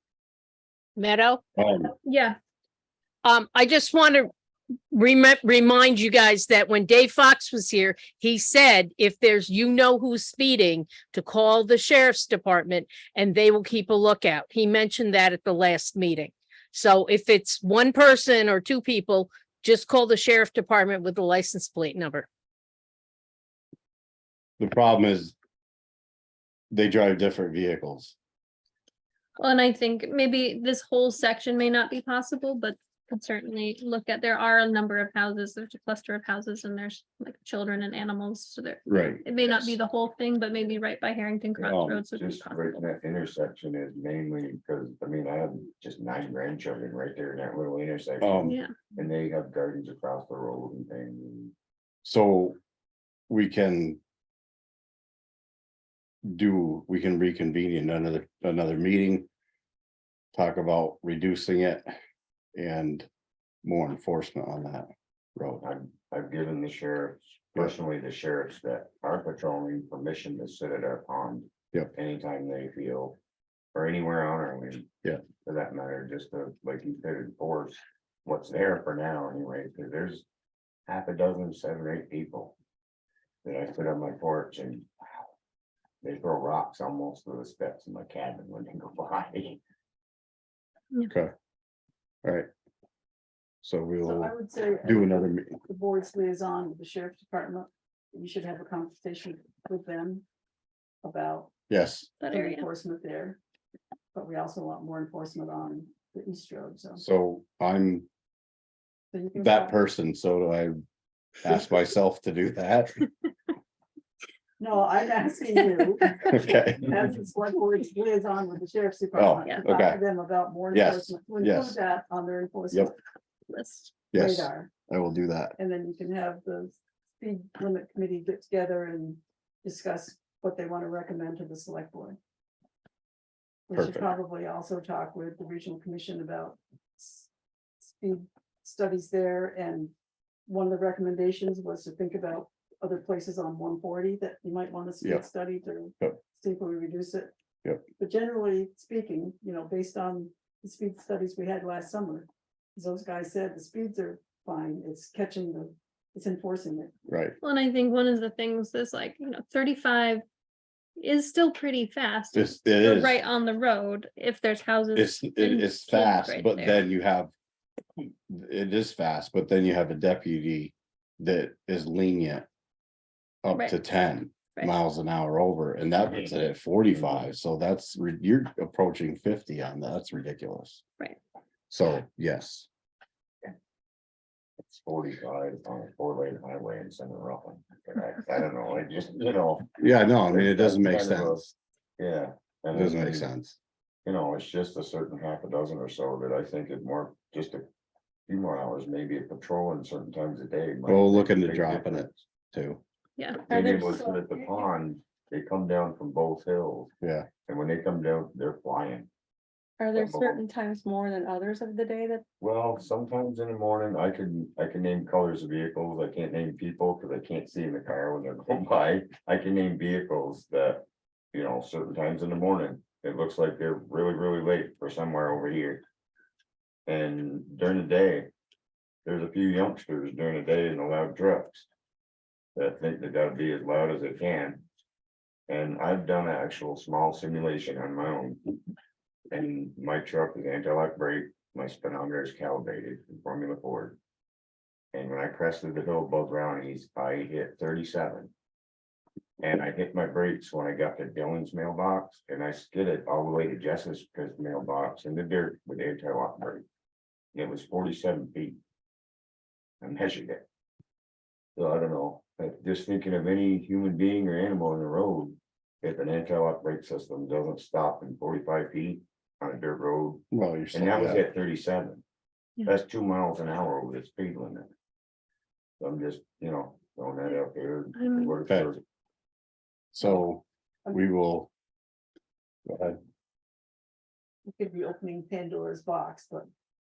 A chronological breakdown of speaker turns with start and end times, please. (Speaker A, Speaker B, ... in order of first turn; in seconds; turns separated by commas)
Speaker A: 1.0-1.4, Speaker B: 1.6-1.9, Speaker C: 2.0-2.4, Speaker A: 3.2-4.3, Speaker A: 4.9-22.3, Speaker B: 24.6-25.3, Speaker B: 26.7-28.1, Speaker C: 29.4-42.8, Speaker B: 38.9-39.7, Speaker B: 41.6-42.0, Speaker D: 41.6-51.5, Speaker B: 48.2-48.6, Speaker C: 48.4-48.8, Speaker B: 52.0-52.6, Speaker B: 53.3-54.0, Speaker B: 56.2-59.3, Speaker B: 60.3-61.9, Speaker B: 62.5-63.1, Speaker B: 63.6-65.6, Speaker D: 65.6-73.2, Speaker D: 73.7-74.9, Speaker D: 75.4-80.2, Speaker D: 80.9-82.5, Speaker D: 83.4-84.9, Speaker D: 86.0-89.6, Speaker B: 93.6-94.3, Speaker E: 94.0-100.2, Speaker B: 94.8-95.5, Speaker E: 101.0-101.5, Speaker B: 101.7-102.1, Speaker C: 102.2-102.7, Speaker E: 102.3-103.4, Speaker E: 104.1-107.0, Speaker B: 107.0-108.0, Speaker E: 109.1-109.8, Speaker B: 109.3-110.7, Speaker B: 111.4-113.0, Speaker E: 114.6-122.9, Speaker B: 116.2-117.0, Speaker B: 119.1-120.0, Speaker B: 120.7-121.8, Speaker C: 123.5-123.9, Speaker B: 124.1-125.5, Speaker E: 124.1-124.7, Speaker E: 125.6-132.2, Speaker E: 133.7-137.3, Speaker B: 133.7-134.1, Speaker E: 137.8-139.9, Speaker E: 140.5-147.3, Speaker E: 148.0-156.9, Speaker B: 157.1-157.3, Speaker C: 157.4-160.2, Speaker C: 161.0-166.8, Speaker B: 162.3-163.2, Speaker B: 164.9-167.3, Speaker B: 168.3-172.5, Speaker B: 173.4-180.8, Speaker C: 173.5-173.8, Speaker D: 176.0-176.3, Speaker D: 176.9-177.2, Speaker B: 181.7-182.7, Speaker D: 184.6-191.4, Speaker B: 189.8-191.5, Speaker D: 192.0-193.3, Speaker B: 192.7-193.6, Speaker D: 194.0-197.6, Speaker D: 198.3-202.2, Speaker B: 200.8-202.8, Speaker C: 203.2-203.5, Speaker D: 203.5-206.9, Speaker F: 203.5-204.6, Speaker B: 207.0-207.3, Speaker D: 207.4-209.1, Speaker F: 209.8-212.2, Speaker D: 209.9-210.4, Speaker D: 212.4-225.8, Speaker D: 226.9-228.3, Speaker D: 229.0-231.7, Speaker D: 232.6-234.6, Speaker D: 235.5-238.4, Speaker D: 239.3-244.0, Speaker D: 244.9-248.3, Speaker D: 249.4-256.6, Speaker D: 257.3-258.6, Speaker D: 259.8-260.4, Speaker D: 261.6-272.0, Speaker B: 270.3-271.2, Speaker D: 272.6-274.7, Speaker D: 275.8-278.8, Speaker C: 277.9-278.4, Speaker B: 279.9-281.5, Speaker B: 282.6-283.0, Speaker E: 284.5-286.5